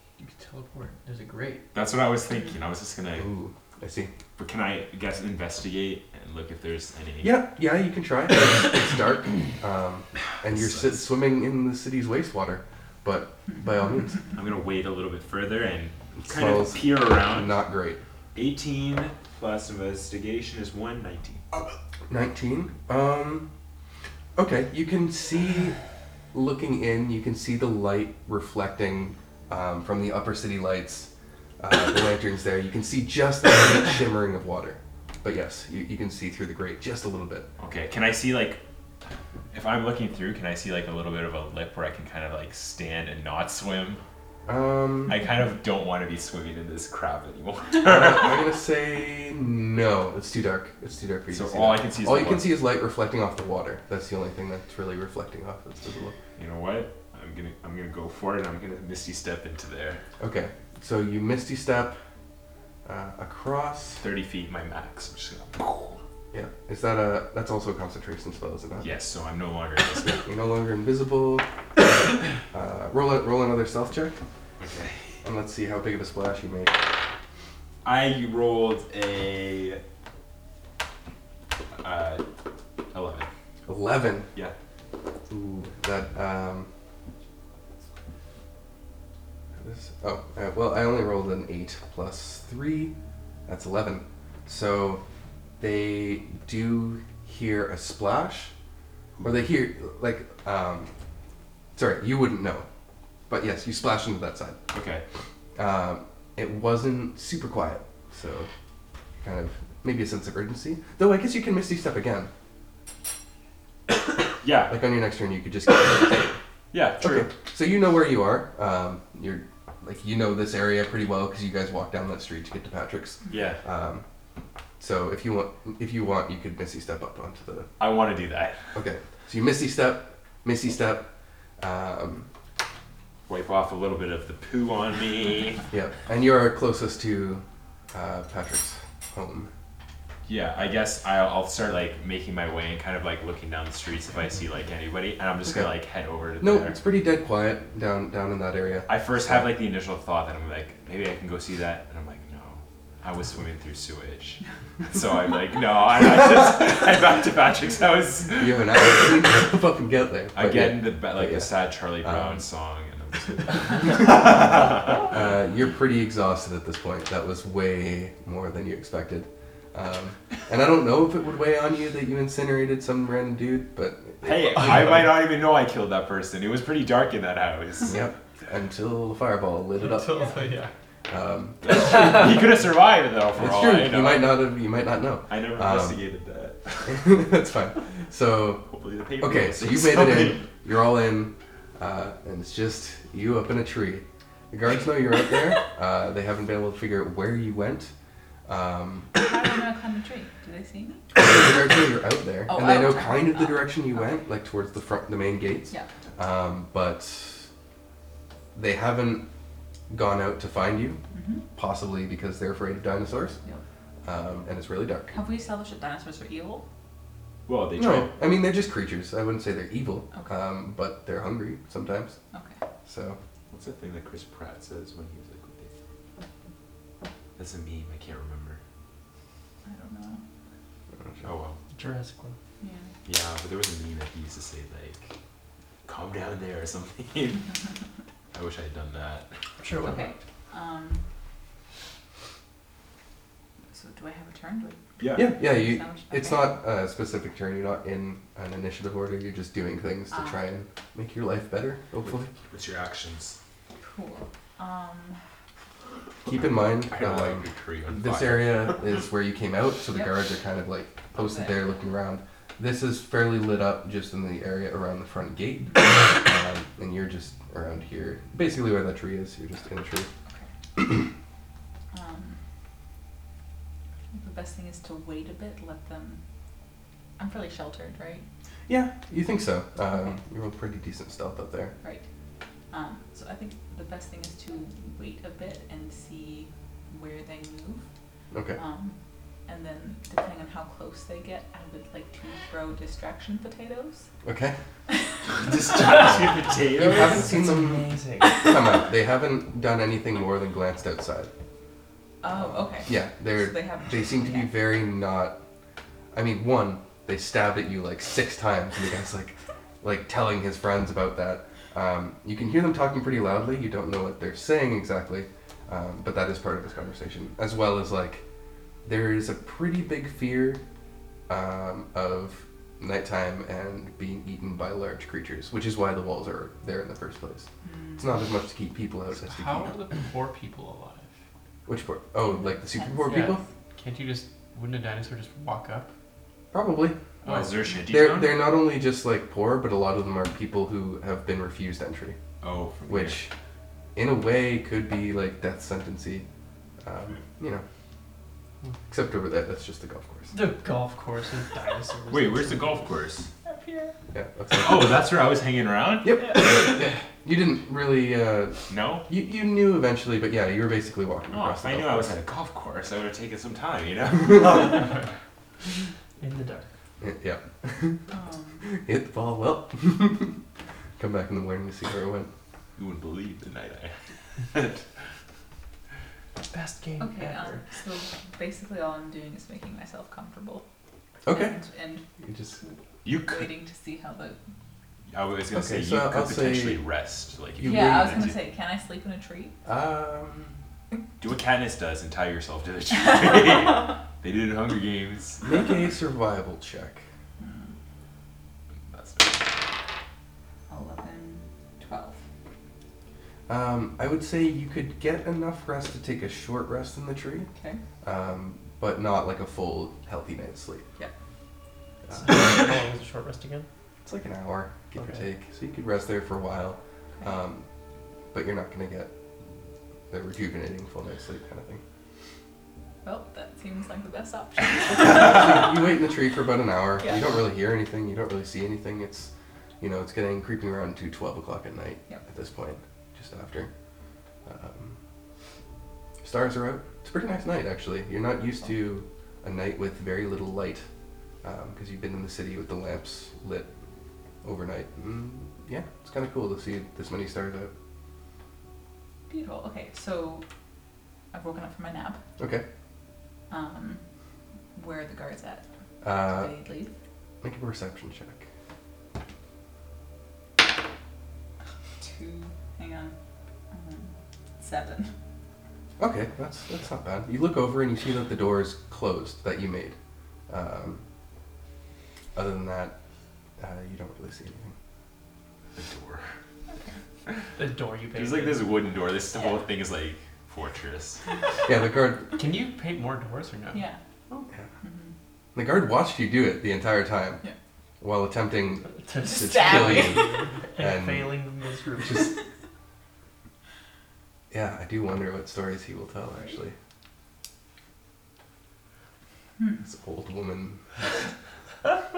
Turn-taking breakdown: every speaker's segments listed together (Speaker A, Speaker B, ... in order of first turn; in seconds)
Speaker A: 0.2-1.6, 179.8-180.7, 329.1-331.1, 333.1-335.9, 337.2-337.6, 482.4-483.9
Speaker B: 1.7-3.3, 4.4-7.4, 10.4-11.1, 14.3-17.6, 18.3-21.7, 37.6-38.6, 39.5-44.0, 45.1-48.4, 51.3-52.6, 56.4-60.0, 64.0-66.0, 68.8-70.3, 74.6-75.1, 77.8-79.8, 81.8-82.2, 82.9-83.3, 99.1-99.4, 104.7-105.0, 114.4-114.8, 116.7-117.3, 123.3-123.6, 127.8-128.6, 133.3-135.6, 140.2-146.8, 148.9-159.0, 160.3-165.4, 174.2-178.0, 181.6-184.4, 185.3-187.1, 188.7-190.5, 217.5-218.2, 223.5-225.7, 227.4-228.6, 231.2-231.6, 233.0-235.1, 235.8-237.5, 238.3-239.3, 245.0-245.3, 252.1-253.4, 256.2-258.8, 295.4-297.4, 337.2-338.5, 342.4-343.2, 352.1-353.3, 354.6-356.6, 358.7-359.1, 361.3-365.0, 372.8-373.9, 374.5-374.8, 383.0-383.5, 385.1-388.4, 391.2-395.5, 398.9-399.6, 475.8-476.2, 478.1-481.2
Speaker C: 3.1-4.1, 7.2-14.2, 16.2-18.0, 22.1-23.5, 24.4-25.8, 26.3-31.1, 31.6-37.5, 44.5-45.2, 47.8-56.1, 60.2-62.0, 62.8-64.0, 66.3-68.9, 70.2-74.2, 75.2-76.9, 83.7-84.3, 85.3-86.7, 89.6-92.9, 93.5-95.0, 95.6-98.5, 99.2-100.9, 101.8-102.7, 103.3-104.6, 105.5-108.5, 109.2-112.3, 114.7-116.4, 117.0-124.0, 124.8-127.7, 128.7-131.1, 131.6-132.3, 135.7-139.5, 146.4-149.5, 158.4-162.4, 163.8-164.3, 165.1-174.9, 177.9-180.3, 181.1-182.3, 183.3-186.0, 186.8-188.7, 189.2-197.9, 198.4-199.1, 201.2-207.5, 208.5-209.2, 209.9-211.0, 211.5-213.4, 214.0-215.1, 217.8-222.2, 222.8-223.2, 230.9-231.3, 245.1-252.3, 256.2-270.1, 270.8-271.1, 278.7-281.7, 288.3-288.6, 294.2-294.6, 296.8-301.3, 302.3-305.4, 306.1-318.2, 318.8-320.6, 321.3-329.7, 331.7-333.4, 336.5-337.0, 337.9-342.2, 342.9-343.3, 343.9-346.2, 346.8-347.6, 348.9-350.3, 354.1-355.0, 356.0-362.2, 367.0-368.0, 368.7-370.4, 371.0-372.3, 381.2-381.6, 382.2-382.6, 385.5-386.8, 387.6-388.2, 389.6-390.5, 395.4-397.0, 403.5-407.5, 408.0-410.8, 412.1-412.4, 414.0-417.6, 418.3-419.1, 420.1-421.8, 424.9-433.7, 434.4-435.0, 436.2-440.9, 441.4-443.7, 444.4-447.7, 452.4-452.6, 456.0-456.5, 457.4-458.5, 466.0-469.9, 470.5-471.0, 472.3-472.9, 473.6-474.7, 481.6-482.3, 485.5-487.4, 488.0-490.2, 490.8-491.3, 492.0-492.3, 494.5-496.8, 499.8-501.1
Speaker D: 180.1-180.4, 199.1-201.1, 202.5-204.2, 211.1-211.4, 215.1-216.6, 220.1-220.4, 229.7-230.2, 232.6-232.9, 239.8-241.0, 243.7-246.6, 250.1-250.5, 253.8-255.2, 259.9-260.3, 261.1-261.8, 265.6-266.1, 271.9-272.4, 274.1-276.2, 277.2-278.2, 282.7-287.9, 288.5-294.1, 294.9-295.5, 302.2-304.6, 327.6-328.2, 332.2-333.4, 353.4-353.9, 368.1-368.6, 377.0-380.6, 381.3-382.0, 383.2-384.4, 387.6-389.6, 397.4-397.7, 400.7-402.2, 407.5-407.8, 423.0-425.6, 427.0-427.2, 449.3-450.4, 451.3-452.2, 453.5-454.0, 454.8-456.9, 462.0-463.1, 463.7-465.1, 476.7-477.0, 479.3-479.6, 483.7-484.0, 484.8-485.1, 489.2-490.3
Speaker E: 231.7-232.3, 239.6-240.1, 296.8-298.6, 350.3-352.8, 366.2-366.7, 376.5-377.6, 412.1-413.7, 477.6-478.7, 489.1-492.3